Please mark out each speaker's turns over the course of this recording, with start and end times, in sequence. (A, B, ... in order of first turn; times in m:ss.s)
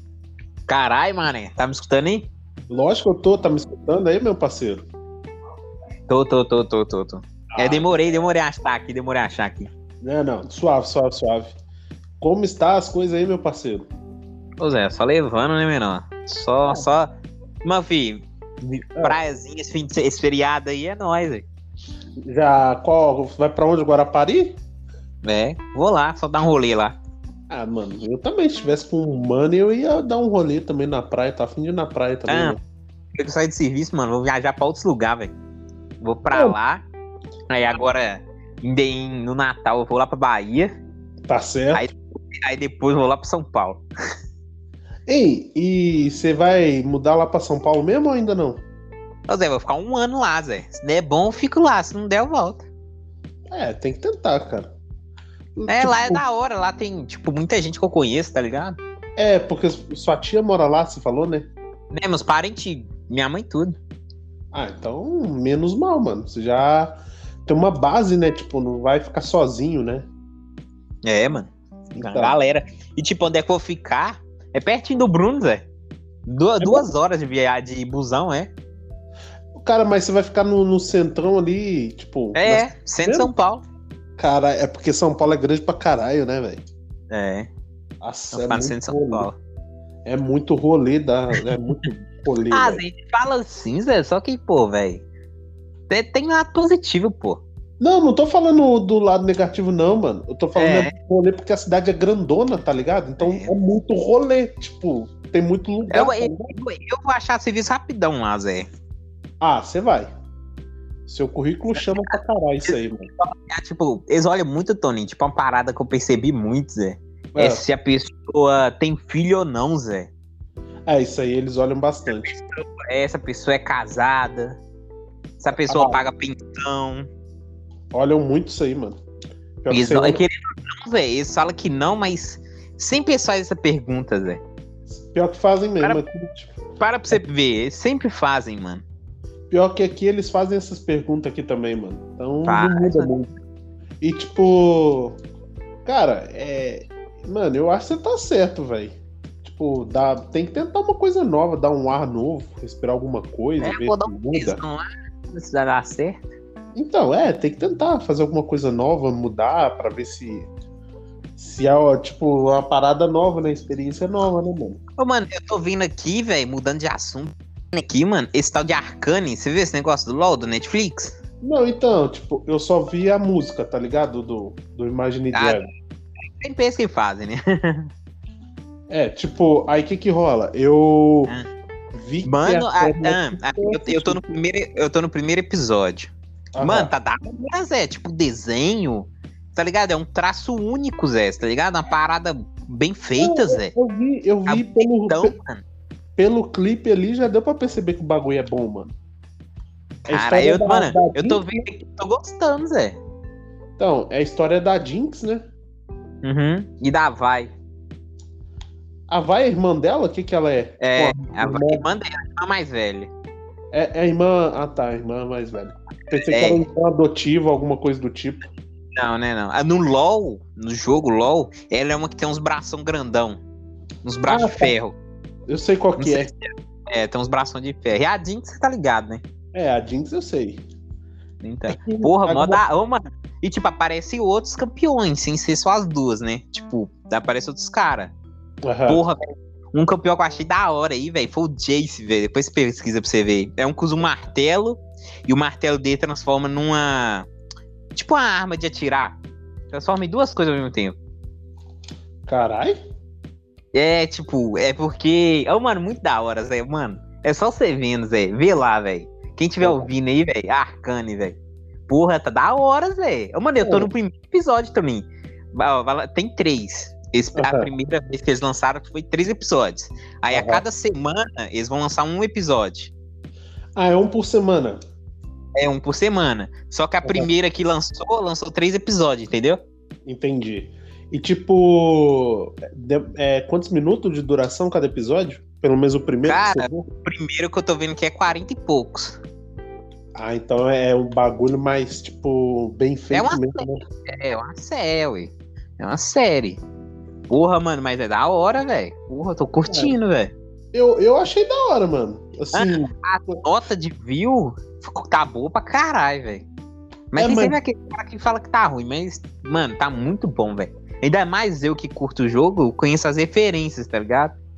0:00.7-0:02.3 A
0:02.7-0:04.9 B
0:06.1-0:09.7 A
0:07.5-0:07.9 B
0:10.0-0:11.5 B
0:12.2-0:13.9 B
0:14.6-0:17.1 A
0:17.6-0:21.5 A
0:22.3-0:24.6 B
0:25.2-0:27.0 A
0:27.5-0:32.6 B
0:32.3-0:32.6 A
0:33.2-0:35.3 A
0:36.0-0:36.8 A
0:36.3-0:36.6 B
0:37.5-0:40.7 A
0:41.3-0:41.9 B
0:41.7-0:43.8 A
0:45.1-0:48.6 B
0:49.3-0:52.7 A
0:53.5-0:54.7 B
0:55.6-0:56.2 B
0:55.7-0:58.8 A
0:59.2-1:01.5 B
1:01.9-1:03.8 A
1:04.5-1:10.1 B
1:11.0-1:15.7 A
1:12.0-1:12.4 B
1:16.3-1:18.5 A
1:16.6-1:16.9 B
1:19.6-1:23.3 B
1:22.4-1:23.6 A
1:24.2-1:26.6 B
1:27.1-1:27.5 A
1:28.0-1:29.3 B
1:28.3-1:29.4 A
1:30.0-1:32.8 B
1:32.5-1:35.0 A
1:35.9-1:37.4 A
1:37.8-1:46.6 B
1:40.6-1:40.9 A
1:43.2-1:43.5 A
1:45.9-1:48.7 A
1:49.4-1:50.1 B
1:51.1-1:53.1 B
1:52.7-2:00.1 A
1:57.4-1:57.6 B
2:00.9-2:02.3 B
2:02.1-2:04.6 A
2:05.4-2:07.1 A
2:05.5-2:06.0 B
2:07.9-2:09.0 B
2:09.6-2:10.2 B
2:09.7-2:14.4 A
2:14.9-2:16.5 B
2:16.8-2:18.8 A
2:19.5-2:23.3 B
2:22.5-2:23.1 A
2:24.0-2:25.2 B
2:25.9-2:34.6 B
2:33.6-2:36.2 A
2:36.8-2:40.5 B
2:41.4-2:44.8 B
2:45.0-2:51.2 A
2:51.4-2:55.7 B
2:55.3-2:55.6 A
2:56.4-2:57.9 A
2:58.9-3:01.3 B
3:02.0-3:04.2 B
3:02.2-3:13.7 A
3:06.6-3:06.9 B
3:13.2-3:15.3 B
3:14.5-3:15.6 A
3:16.2-3:18.9 B
3:20.0-3:23.0 A
3:20.1-3:21.5 B
3:23.8-3:25.4 B
3:26.2-3:27.5 A
3:29.1-3:31.9 B
3:30.8-3:33.1 A
3:33.7-3:38.5 B
3:36.3-3:36.6 A
3:39.0-3:43.4 A
3:44.0-3:45.0 A
3:44.3-3:44.8 B
3:45.5-3:46.3 B
3:46.0-3:49.2 A
3:49.5-3:50.6 B
3:51.4-3:58.1 A
3:51.7-3:52.6 B
3:58.6-3:59.0 B
3:58.9-3:59.2 A
3:59.7-4:07.3 A
4:07.9-4:09.2 A
4:09.7-4:11.0 A
4:12.3-4:12.8 B
4:13.7-4:32.9 A
4:23.6-4:23.9 B
4:27.4-4:27.7 B
4:30.3-4:30.6 B
4:33.8-4:34.8 B
4:35.6-4:39.6 A
4:40.1-4:46.9 B
4:46.2-4:49.2 A
4:50.2-4:53.8 B
4:53.1-4:56.6 A
4:57.3-5:00.3 A
4:59.6-5:00.0 B
5:00.7-5:03.4 B
5:02.5-5:06.5 A
5:07.1-5:14.4 A
5:07.2-5:07.6 B